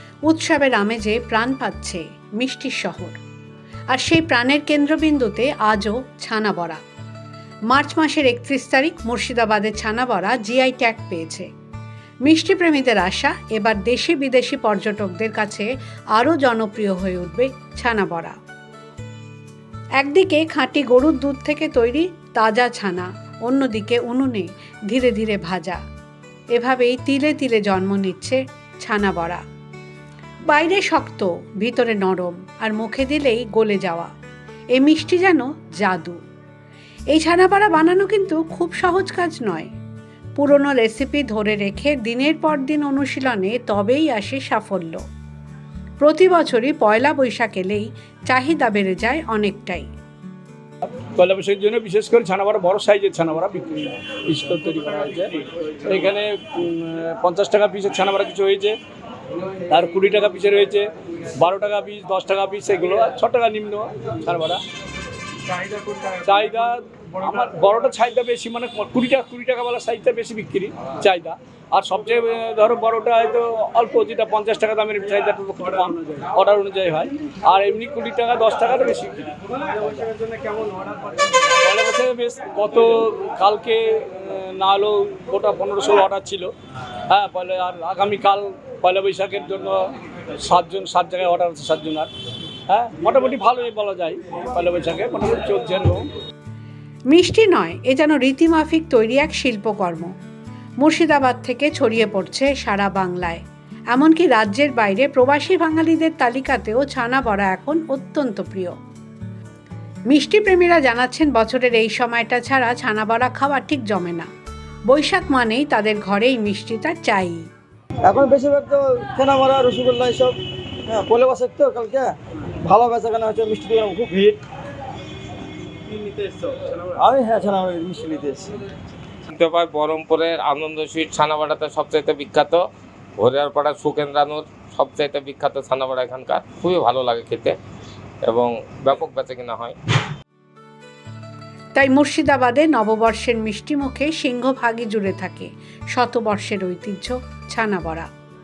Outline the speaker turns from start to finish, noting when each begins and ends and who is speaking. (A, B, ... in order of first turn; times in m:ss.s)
0:00.2-0:03.2 A
0:03.9-0:06.8 A
0:07.7-0:11.5 A
0:12.2-0:18.4 A
0:20.0-0:25.8 A
0:26.5-0:29.4 A
0:30.5-0:34.1 A
0:34.7-0:36.2 A
0:37.1-0:39.7 A
0:40.4-0:45.0 A
0:46.0-0:49.9 A
0:51.1-0:58.8 B
0:59.7-1:04.6 B
1:05.6-1:26.5 B
1:27.1-1:32.1 B
1:32.7-1:36.1 B
1:37.1-1:40.1 A
1:40.8-1:48.8 A
1:50.1-1:54.3 A
1:54.9-1:57.5 A
1:58.0-2:04.4 C
2:06.9-2:08.5 C
2:09.3-2:12.6 D
2:13.2-2:17.5 D
2:18.2-2:19.8 D
2:21.8-2:28.1 A